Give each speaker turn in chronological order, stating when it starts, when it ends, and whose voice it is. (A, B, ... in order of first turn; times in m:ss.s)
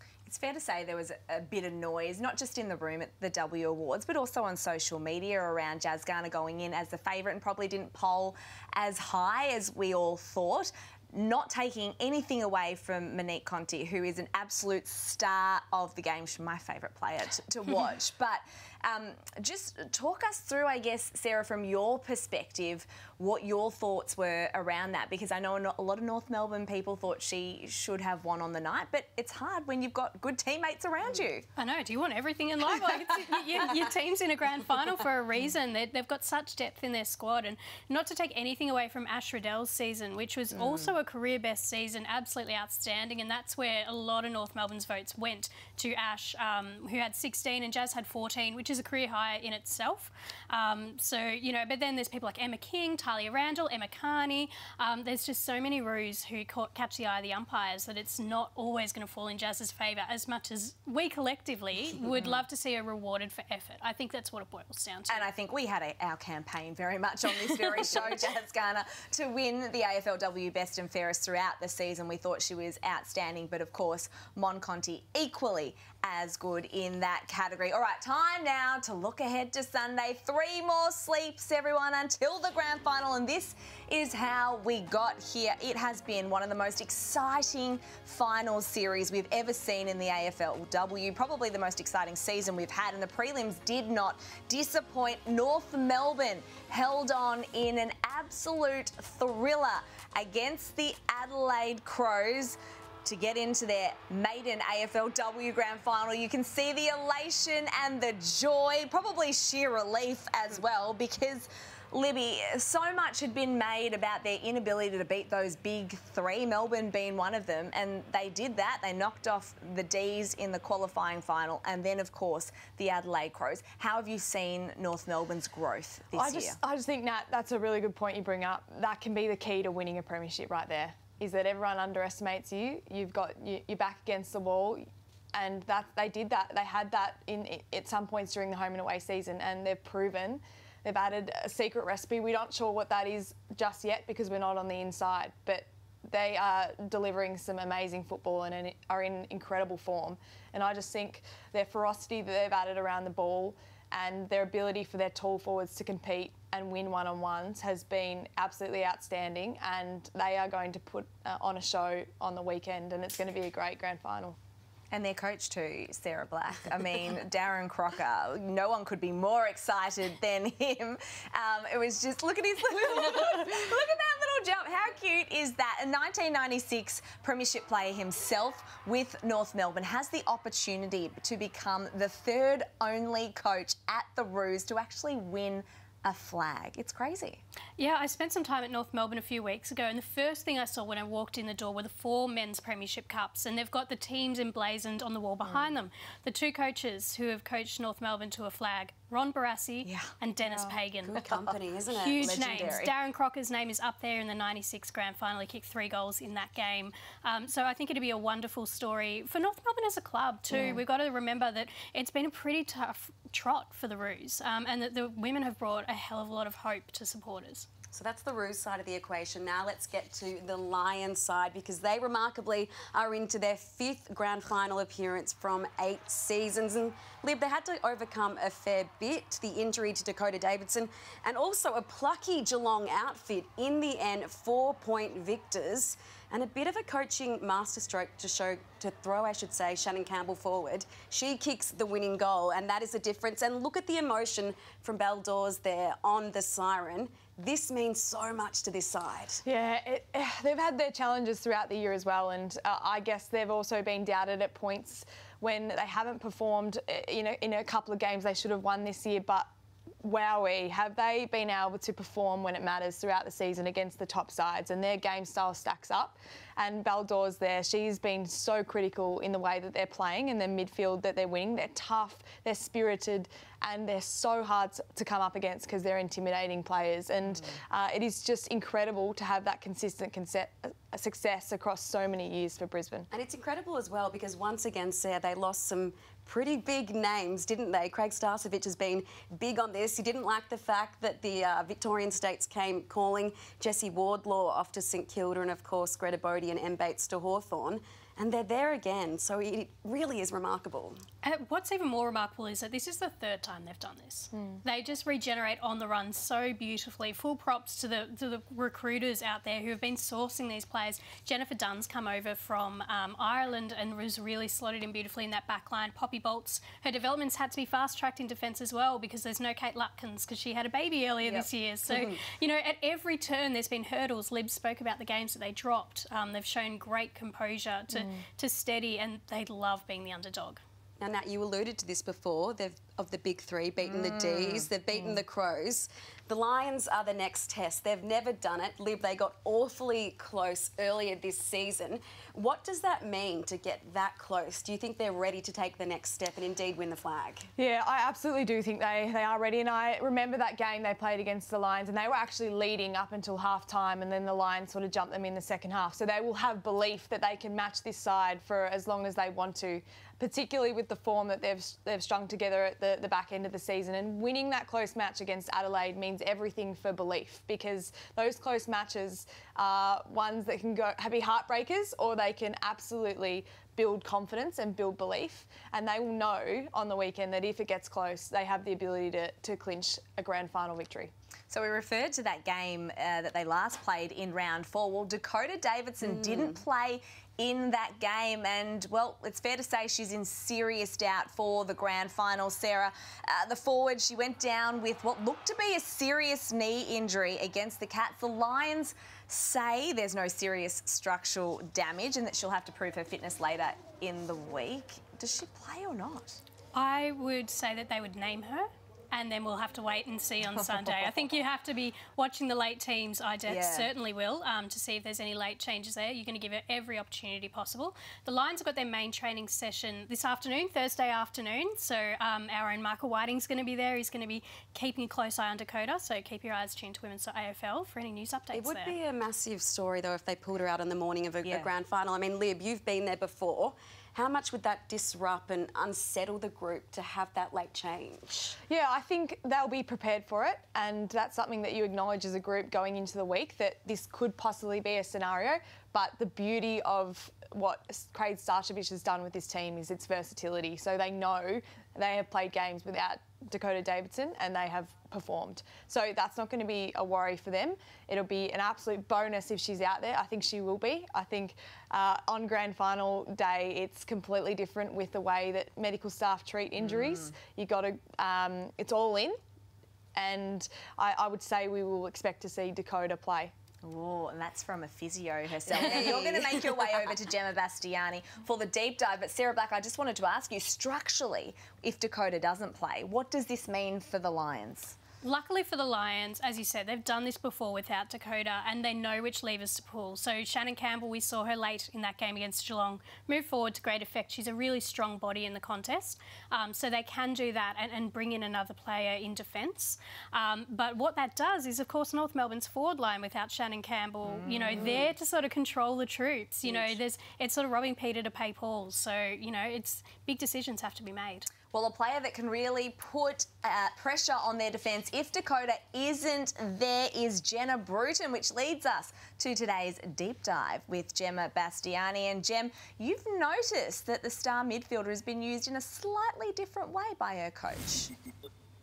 0:00.3-0:31.4 A
0:31.6-1:05.2 B
0:40.5-0:40.9 A
1:02.2-1:02.4 A
1:05.1-2:06.6 A
2:06.2-2:44.4 C
2:44.9-3:07.4 A
3:07.8-3:21.2 B
3:19.8-3:20.7 A
3:21.0-3:22.8 D
3:21.2-3:21.5 A
3:21.9-3:37.7 B
3:22.2-3:23.0 A
3:37.9-4:09.4 D
4:09.4-4:19.5 C
4:20.0-4:43.1 C
4:43.1-5:01.0 D
5:01.2-5:30.6 B
5:04.3-5:04.6 C
5:21.2-5:22.2 D
5:31.0-5:47.5 D
5:33.9-5:34.7 A
5:47.6-6:21.1 C
6:21.5-6:46.4 A
6:26.0-6:26.6 D
6:46.7-7:09.0 B
6:50.4-6:51.4 A
6:53.5-6:53.9 A
7:08.5-7:18.6 D
7:11.4-7:11.7 A
7:18.7-7:49.4 C
7:46.8-7:47.3 A
7:50.2-7:53.5 C
7:53.8-8:05.0 A
7:55.8-7:56.5 D
8:05.2-8:31.5 B
8:24.2-8:25.1 A
8:24.7-8:25.1 D
8:26.6-8:26.9 D
8:31.7-8:48.1 A